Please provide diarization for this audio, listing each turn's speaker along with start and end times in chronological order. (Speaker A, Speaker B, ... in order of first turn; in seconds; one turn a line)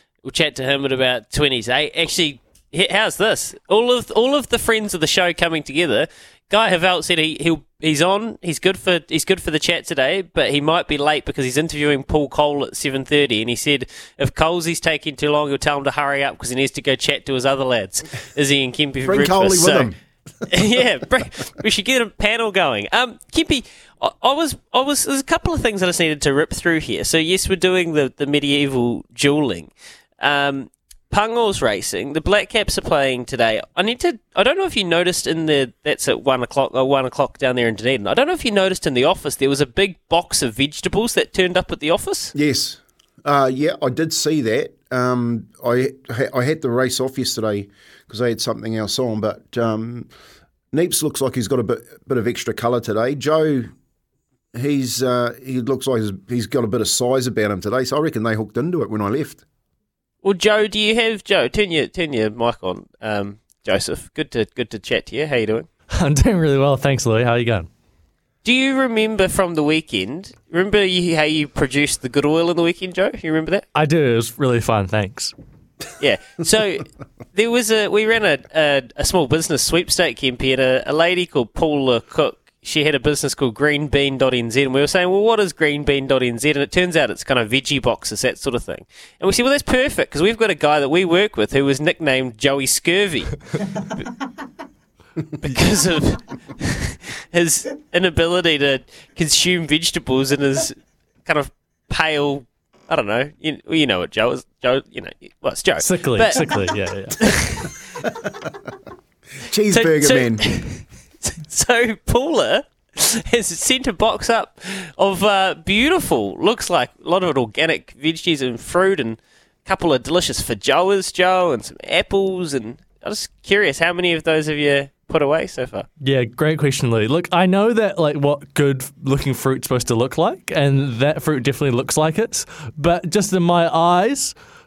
Speaker A: 0.2-19.9
Speaker B: 19.0-20.5
Speaker A: 20.5-42.3
Speaker B: 42.3-50.1
Speaker B: 50.7-53.7
Speaker B: 54.5-59.4
Speaker A: 60.2-65.7
Speaker C: 66.0-67.7
Speaker A: 68.4-73.7
Speaker C: 73.7-75.3
Speaker A: 76.0-94.0
Speaker A: 95.4-106.5
Speaker C: 105.8-107.3
Speaker A: 107.2-107.8
Speaker B: 109.5-110.5
Speaker A: 109.7-125.9
Speaker C: 126.0-134.4